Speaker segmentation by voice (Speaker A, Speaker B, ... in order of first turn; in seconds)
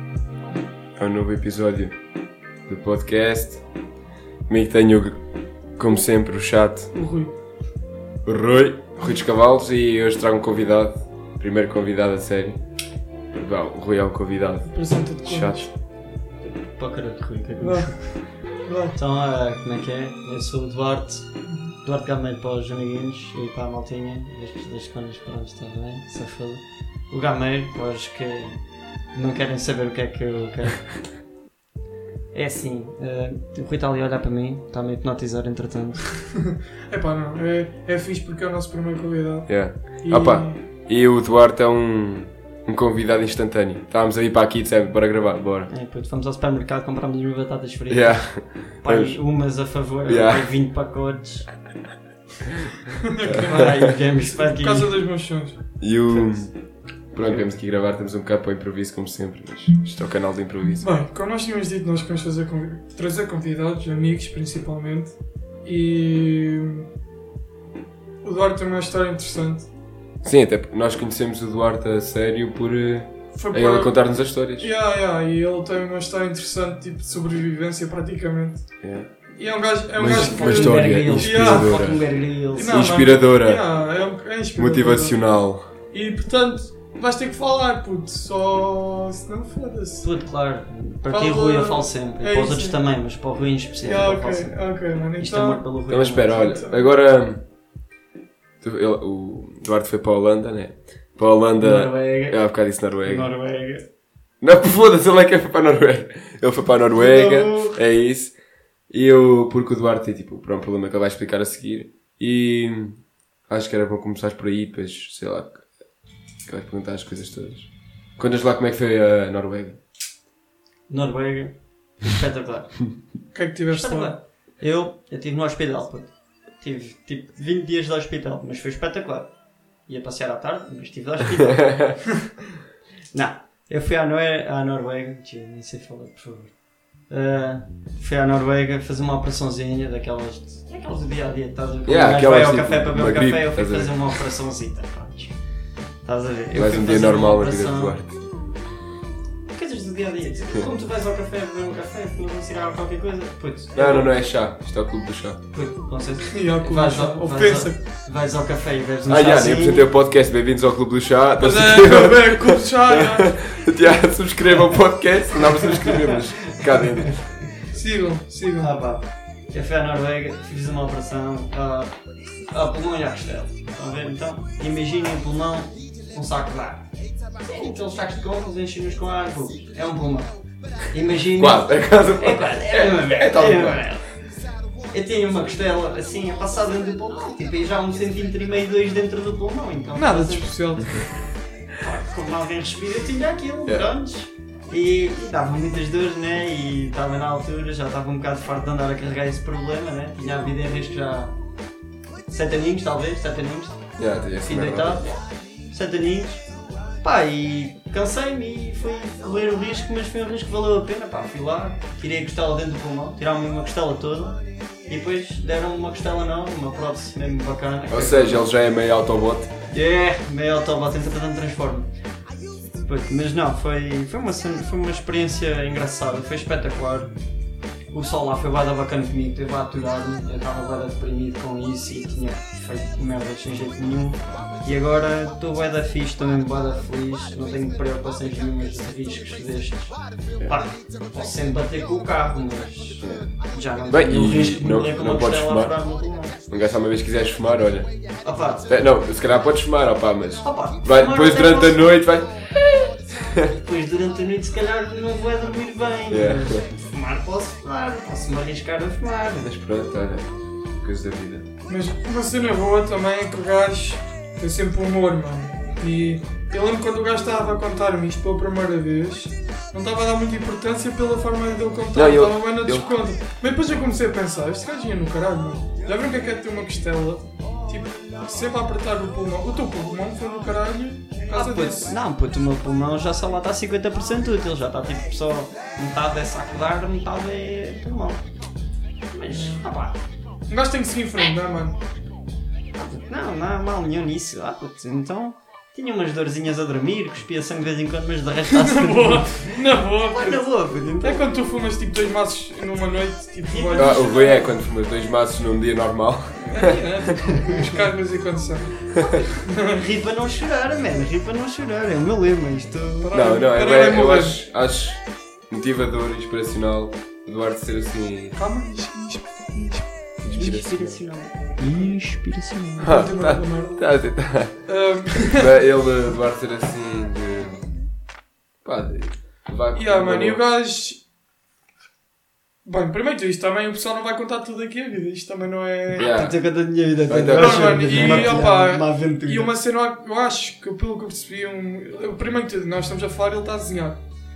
Speaker A: 1.0-1.9, 2.7-3.6, 4.5-5.2, 5.8-6.9, 8.2-12.6, 13.3-15.7, 39.5-45.7, 47.9-49.4, 50.0-50.5, 55.8-60.9, 70.2-74.7, 78.8-79.1, 80.0-83.7, 84.5-85.7, 95.9-97.4, 98.6-103.3, 104.4-108.3, 108.9-115.6, 116.5-119.8, 141.9-144.2, 146.5-148.1, 153.8-155.4, 159.1-167.3, 181.3-183.8, 204.0-205.0, 217.9-219.5, 243.0-243.3, 243.9-245.7, 246.5-247.9, 248.7-252.5, 256.1-256.6, 259.4-261.4, 271.9-272.9, 303.8-306.8, 313.1-318.4, 320.2-321.0, 322.8-327.7, 328.6-330.4, 336.0-336.4, 337.1-338.4
Speaker B: 6.9-7.3, 14.7-15.7, 17.6-18.9, 21.5-21.7, 36.9-40.6, 53.1-56.5, 60.8-65.1, 65.6-66.9, 68.2-69.7, 73.3-78.7, 79.4-81.9, 82.5-85.3, 85.9-90.1, 91.1-92.8, 93.8-95.6, 96.5-96.8, 123.3-124.2, 156.3-157.8, 161.4-163.3, 167.7-168.7, 189.9-191.1, 261.7-281.9, 289.3-289.6, 290.5-291.8, 298.5-300.5, 301.0-304.2, 306.4-309.8, 313.0-314.4, 318.4-319.9, 322.8-323.9, 324.6-325.5, 329.7-331.0, 332.6-336.1, 337.3-344.0
Speaker C: 16.4-18.1, 18.9-21.3, 21.8-28.6, 29.1-31.0, 32.3-36.1, 45.7-51.5, 53.3-54.9, 80.0-82.8, 90.0-96.5, 101.6-102.4, 103.0-103.8, 106.9-107.8, 120.9-122.9, 123.7-129.3, 129.9-131.9, 133.1-136.6, 137.1-145.3, 146.0-148.0, 149.5-154.1, 155.5-159.8, 165.6-166.2, 168.6-171.9, 172.5-176.8, 177.4-180.3, 180.9-184.0, 184.9-190.5, 191.8-201.3, 202.3-205.2, 205.7-206.4, 207.0-218.4, 219.7-221.9, 222.8-227.1, 227.9-246.4, 248.2-248.7, 250.4-251.8, 253.5-259.5, 281.3-288.2, 289.1-290.0, 292.7-301.2, 303.4-304.4, 309.7-313.1, 320.3-322.9, 336.0-339.5